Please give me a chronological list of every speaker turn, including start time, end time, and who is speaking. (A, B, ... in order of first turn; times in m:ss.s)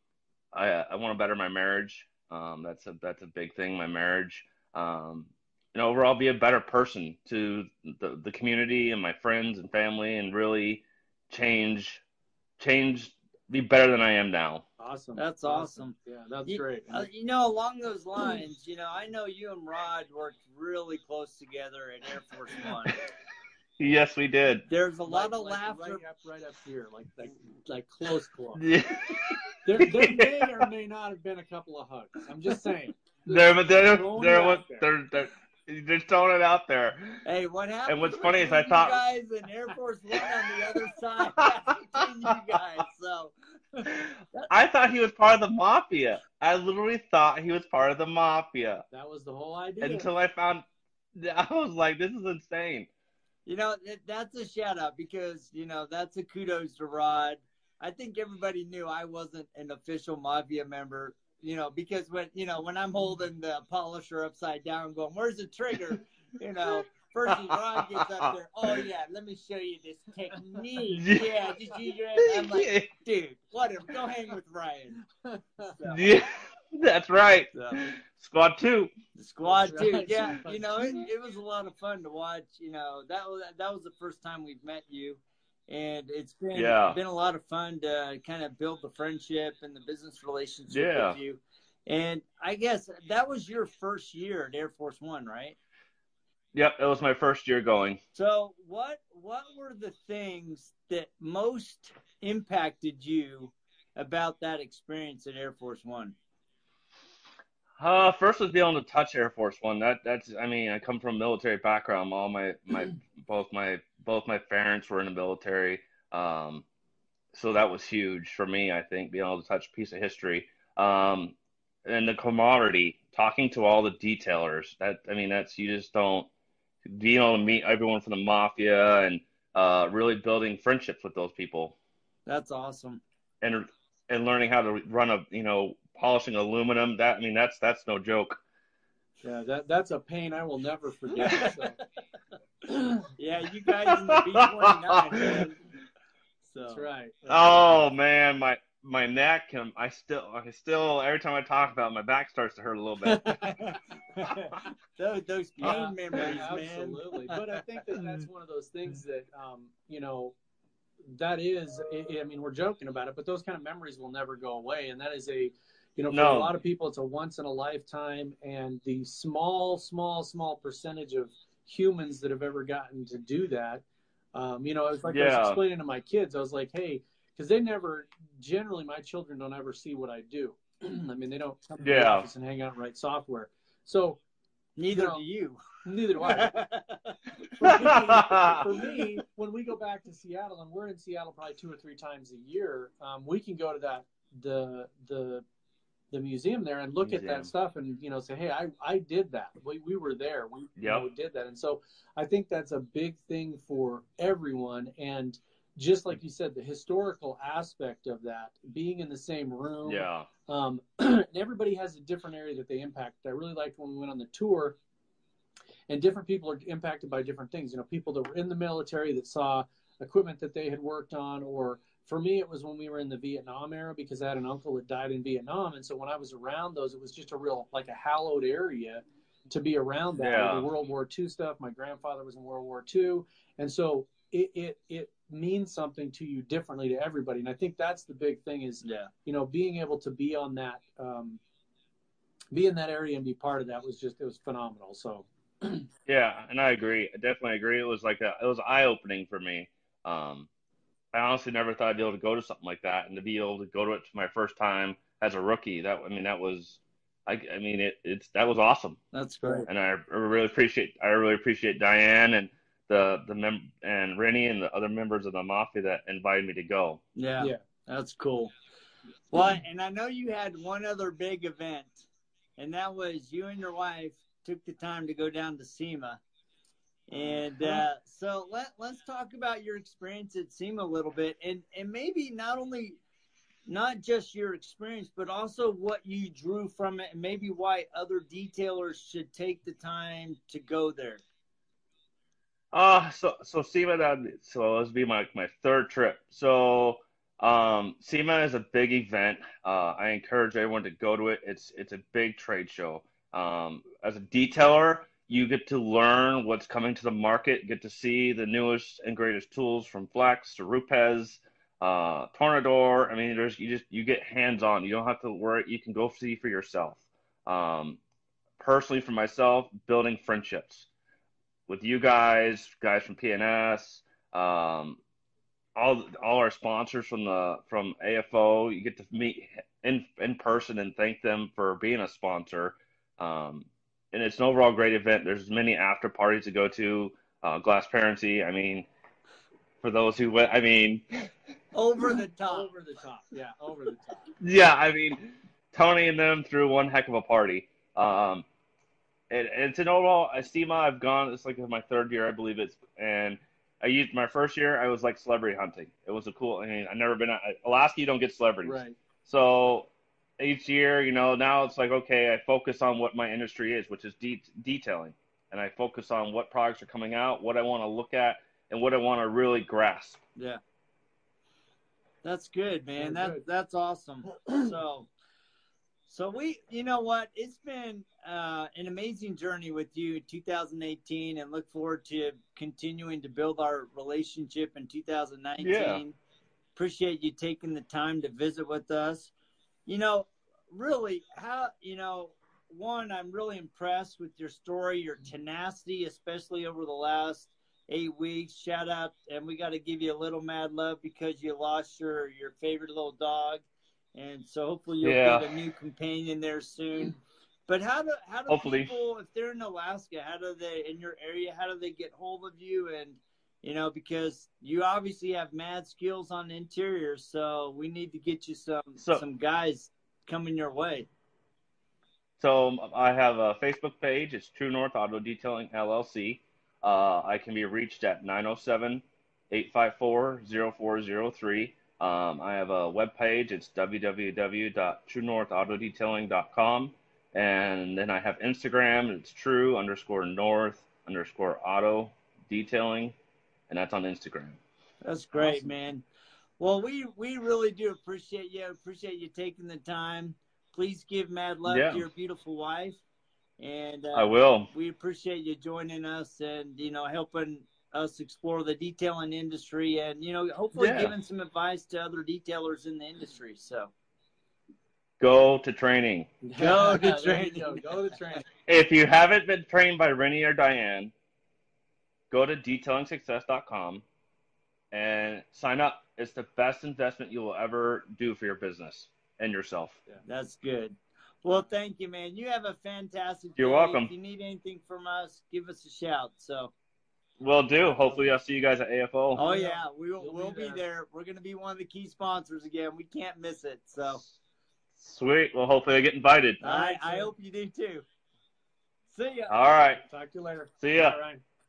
0:00.5-0:12.0 A
0:12.6-0:14.6 A
0:14.8-0:17.1 B
0:15.2-0:15.9 C
0:16.5-0:23.0 C
0:23.8-0:24.6 A
0:24.7-0:26.0 C
0:25.0-0:28.6 B
0:28.6-0:30.6 A
0:29.6-0:34.9 B
0:33.3-0:37.2 A
0:37.2-0:43.3 C
0:37.9-0:39.0 A
0:43.8-0:48.8 A
0:48.9-0:50.1 B
0:49.8-0:50.6 A
0:51.2-0:52.9 A
0:53.5-1:15.0 C
1:07.3-1:08.1 A
1:10.9-1:11.6 A
1:12.2-1:12.9 A
1:15.2-1:15.7 B
1:15.6-1:16.1 C
1:15.9-1:18.9 A
1:17.5-1:17.8 C
1:19.2-1:35.6 C
1:19.4-1:21.0 B
1:26.5-1:27.0 A
1:30.7-1:31.2 A
1:36.5-1:38.0 A
1:38.2-1:46.2 C
1:47.8-1:56.6 A
1:57.3-2:06.3 A
2:06.8-2:11.8 A
2:12.3-2:13.0 C
2:13.4-2:18.4 A
2:19.2-2:21.8 B
2:21.2-2:21.6 C
2:22.7-2:23.0 B
2:23.2-2:25.7 C
2:23.9-2:25.5 A
2:26.4-2:26.9 C
2:26.7-2:27.8 B
2:27.3-2:33.3 A
2:33.0-2:33.5 B
2:33.4-2:37.4 C
2:35.6-2:40.4 B
2:35.6-2:36.5 A
2:41.1-3:04.2 B
2:46.1-2:46.5 A
2:55.1-2:55.6 A
3:01.8-3:02.3 A
3:04.8-3:05.6 C
3:04.9-3:05.2 B
3:05.8-3:06.6 B
3:06.2-3:07.2 C
3:07.6-3:15.4 B
3:07.8-3:08.6 A
3:16.1-3:34.8 B
3:17.0-3:17.5 A
3:20.8-3:21.1 A
3:29.9-3:30.3 A
3:35.9-4:01.4 B
3:50.2-3:50.7 A
3:58.8-3:59.1 C
4:02.5-4:05.8 B
4:06.1-4:10.5 A
4:11.1-4:19.0 A
4:19.1-4:19.7 C
4:19.4-4:19.7 B
4:19.7-4:27.0 A
4:27.2-4:28.5 C
4:29.3-4:36.2 C
4:37.1-4:43.0 C
4:37.1-4:37.8 B
4:43.7-4:51.2 C
4:52.7-5:18.0 A
5:18.6-5:20.9 A
5:21.7-5:25.0 A
5:25.8-5:38.9 A
5:39.8-5:41.3 A
5:41.7-5:42.7 C
5:42.5-5:44.3 B
5:44.4-5:48.4 A
5:49.3-6:10.2 A
5:58.6-5:59.0 B
6:10.4-6:10.6 C
6:12.2-6:15.1 C
6:13.0-6:13.4 B
6:16.1-6:26.2 C
6:25.6-6:26.0 A
6:26.8-6:29.3 C
6:29.9-7:01.1 C
6:45.0-6:45.6 A
6:48.5-6:48.9 A
6:59.0-6:59.2 A
7:02.4-7:23.2 A
7:23.7-7:24.6 A
7:25.0-7:26.0 C
7:25.3-7:25.7 B
7:26.6-7:33.0 C
7:31.7-7:32.0 A
7:33.6-7:43.9 C
7:34.1-7:34.7 A
7:40.7-7:41.2 A
7:45.2-7:46.3 A
7:46.4-7:48.5 B
7:46.6-7:47.8 C
7:48.7-7:51.1 A
7:52.3-7:54.0 A
7:54.9-8:00.0 A
8:00.2-8:06.7 C
8:03.6-8:04.1 A
8:07.4-8:09.4 A
8:07.8-8:08.3 B
8:09.4-8:10.8 B
8:09.4-8:14.2 C
8:15.0-8:16.6 A
8:16.6-8:17.3 B
8:16.6-8:18.0 C
8:19.1-8:19.6 C
8:19.5-8:20.0 A
8:20.0-8:21.4 B
8:20.8-8:21.2 A